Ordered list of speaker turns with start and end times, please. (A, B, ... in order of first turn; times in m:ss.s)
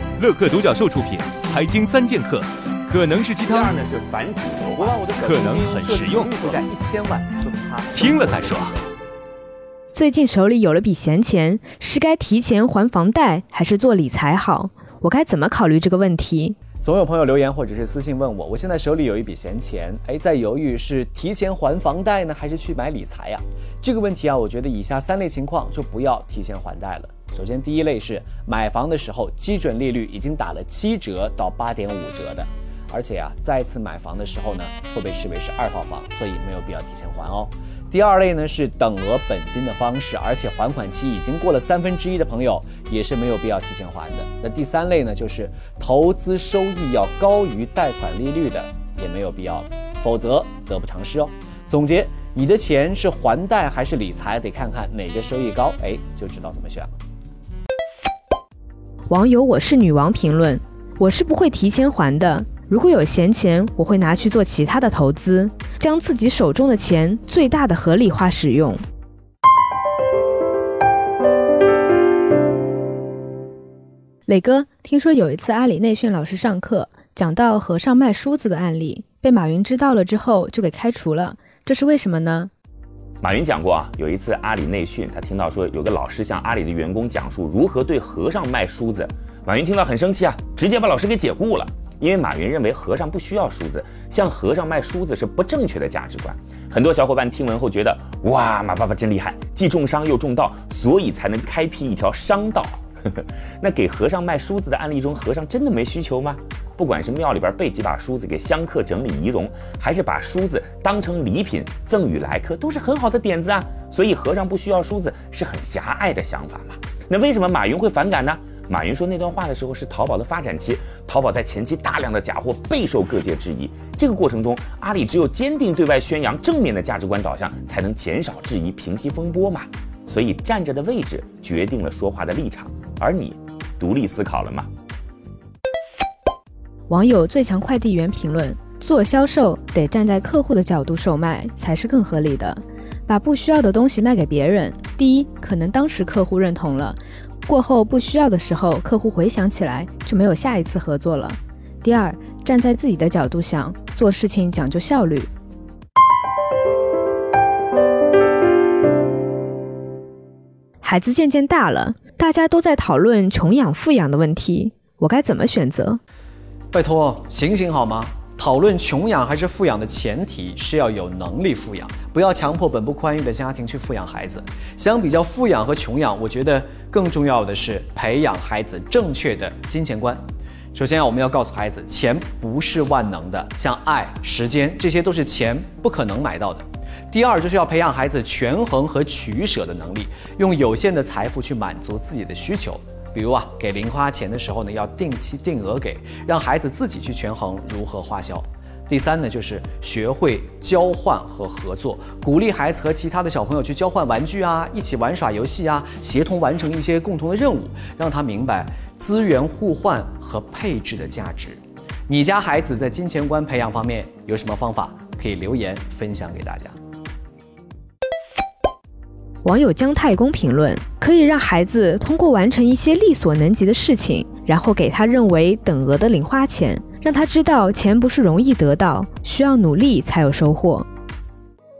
0:00.2-0:03.7 A
0:03.4-0:05.5 B
0:04.8-0:06.6 A
0:05.6-0:08.8 C
0:07.9-0:08.7 A
0:09.9-0:16.6 D
0:16.8-0:56.9 C
0:59.1-1:08.8 D
1:14.3-1:22.5 D
1:23.2-2:14.7 B
2:16.9-2:35.3 D
2:40.8-2:46.0 D
2:46.7-3:00.2 C
3:00.7-3:36.8 C
3:39.4-3:50.9 D